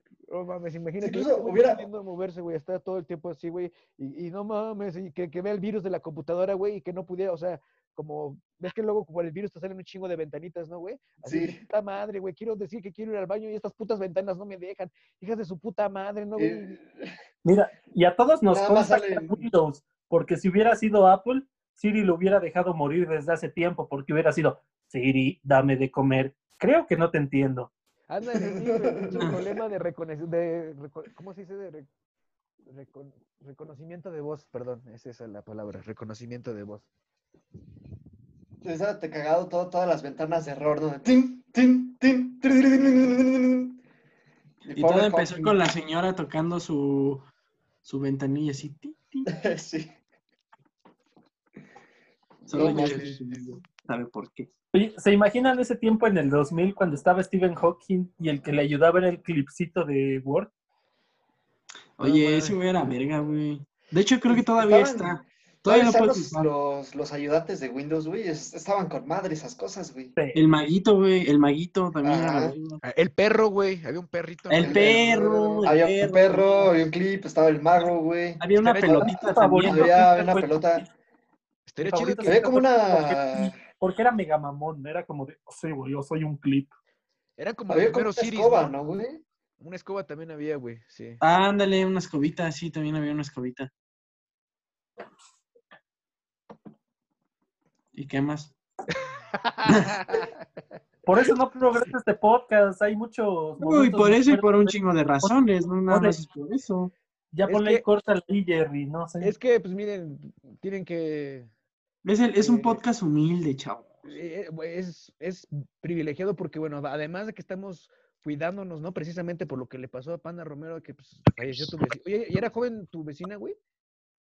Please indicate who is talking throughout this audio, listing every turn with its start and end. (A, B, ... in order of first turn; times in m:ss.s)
0:00.3-0:16.8 A
0:01.0-0:01.9 B
0:11.2-0:11.6 B
0:16.4-0:17.1 B
0:17.4-0:27.7 C
0:18.5-0:19.5 B
0:28.1-0:31.9 A
0:28.4-0:29.4 B
0:32.7-0:36.9 A
0:38.6-0:43.8 B
0:44.7-0:45.6 B
0:44.7-0:47.3 D
0:47.8-0:49.3 D
0:49.3-0:49.9 B
0:52.5-0:54.5 D
0:52.5-0:53.2 B
0:52.6-0:53.0 A
0:54.7-1:00.5 C
1:02.0-1:06.5 D
1:02.0-1:02.6 A
1:04.2-1:10.1 B
1:10.2-1:10.4 C
1:10.3-1:12.8 D
1:12.0-1:12.6 B
1:12.8-1:15.1 A
1:14.5-1:16.6 D
1:14.6-1:20.9 B
1:18.4-1:19.9 D
1:18.6-1:19.3 A
1:19.2-1:20.8 C
1:21.7-1:22.4 A
1:21.8-1:26.7 C
1:22.2-1:23.6 B
1:27.4-1:28.8 A
1:27.7-1:29.2 B
1:29.6-1:31.2 A
1:31.2-1:33.7 D
1:38.0-1:38.5 D
1:39.3-1:40.4 A
1:39.7-1:40.0 D
1:41.1-1:45.4 C
1:43.6-1:46.9 D
1:45.9-1:46.2 C
1:47.3-1:49.3 C
1:47.5-1:47.8 A
1:49.2-1:51.5 A
1:52.0-1:54.1 D
1:52.4-1:52.8 A
1:54.0-2:03.6 A